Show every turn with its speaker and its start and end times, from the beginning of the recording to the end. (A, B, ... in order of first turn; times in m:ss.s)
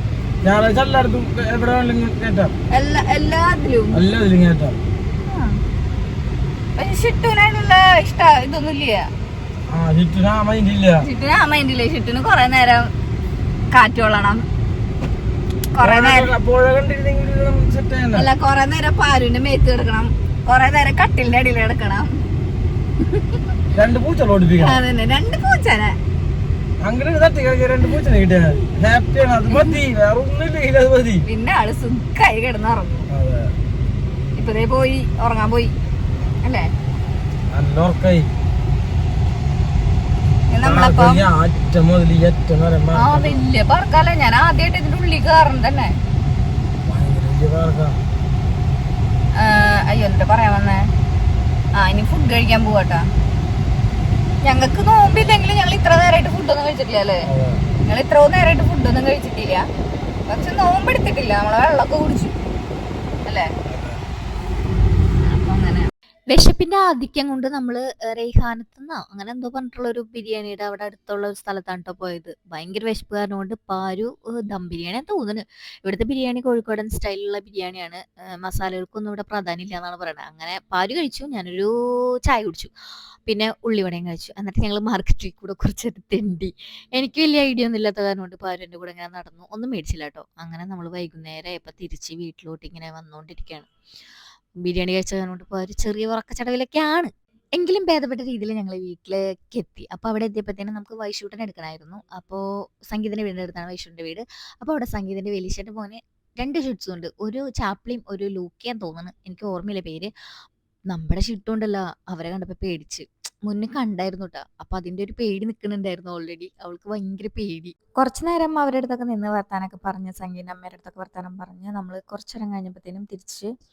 0:00.4-0:02.5 A
0:02.7-0:04.0 B
0:03.9-0:04.8 A
0:05.3-0:05.5 B
0:06.8-0:09.1 B
0:09.7-0:11.0 A
0:11.0-0:12.9 B
0:13.7-0:14.4 B
0:15.7-0:16.3 B
0:15.8-0:18.3 A
0:18.1-0:22.1 B
0:23.0-0:23.6 B
0:23.7-0:24.8 A
0:24.6-0:26.0 B
0:26.8-0:31.2 A
0:31.3-0:33.1 B
0:33.1-0:33.5 A
0:34.4-0:35.7 B
0:37.5-0:38.3 A
0:40.5-0:41.2 B
0:40.6-0:43.4 A
0:42.9-0:45.9 B
0:46.8-0:48.0 A
0:49.4-0:50.8 B
0:51.7-0:53.0 B
0:54.4-0:57.2 B
0:57.2-0:57.6 A
0:57.9-0:59.6 B
1:00.3-1:02.3 B
1:03.7-1:04.0 A
1:05.2-1:05.9 B
1:06.3-1:22.7 C
1:23.2-1:33.7 C
1:34.6-1:50.1 C
1:50.9-2:03.5 C